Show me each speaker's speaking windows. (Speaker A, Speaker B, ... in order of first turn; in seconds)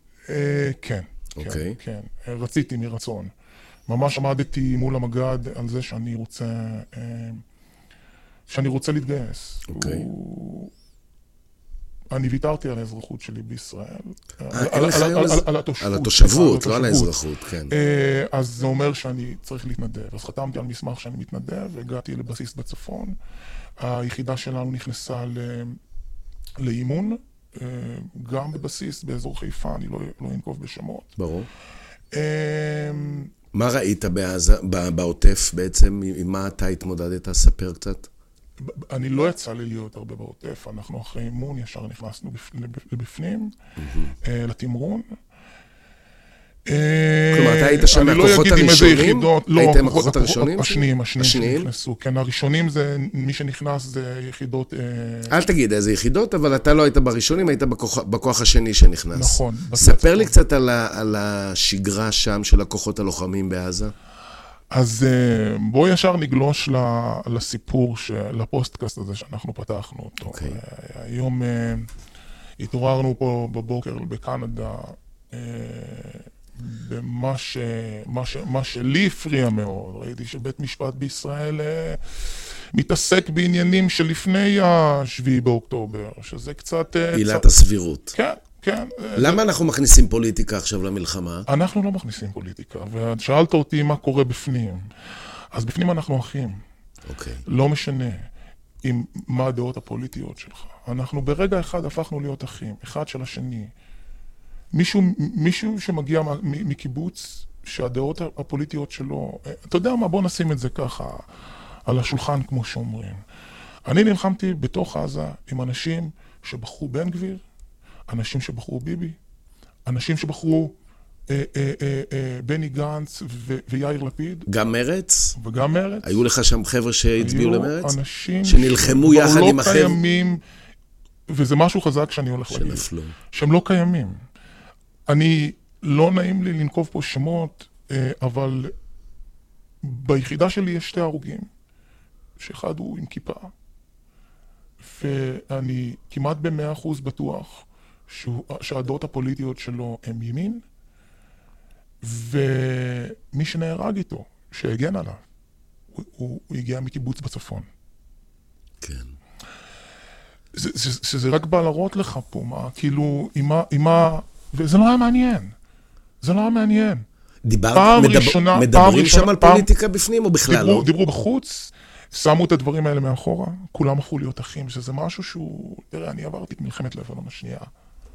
Speaker A: 0.3-3.3, 3.9-7.4, 8.5-10.7, 12.1-17.1, 17.7-23.2, 23.8-25.8, 26.6-31.1, 32.1-33.3, 38.6-43.5, 44.2-45.1, 46.7-55.4, 59.1-60.4, 64.7-71.9, 72.6-87.5, 88.1-89.4, 91.5-94.9, 95.5-96.6, 97.5-98.3, 98.8-103.7, 104.7-111.3, 111.9-113.2, 113.9-117.4, 118.1-119.2, 119.9-120.8, 121.3-124.5, 125.4-126.2, 127.2-130.4, 131.3-134.2, 135.1-138.7, 139.8-141.5, 142.4-143.5, 144.8-150.6, 152.0-155.2, 155.9-157.7, 160.5-165.6, 166.2-167.1, 167.7-169.7, 170.5-177.7
Speaker B: 1.4-1.8, 9.7-10.1, 14.5-17.7, 31.2-31.5, 33.5-38.1, 43.8-44.1, 47.3-51.7, 55.3-63.9, 70.3-70.6, 87.1-88.1, 89.2-91.5, 97.1-97.4, 124.5-125.4, 126.0-130.0, 132.5-133.1, 158.8-159.1, 167.4-170.9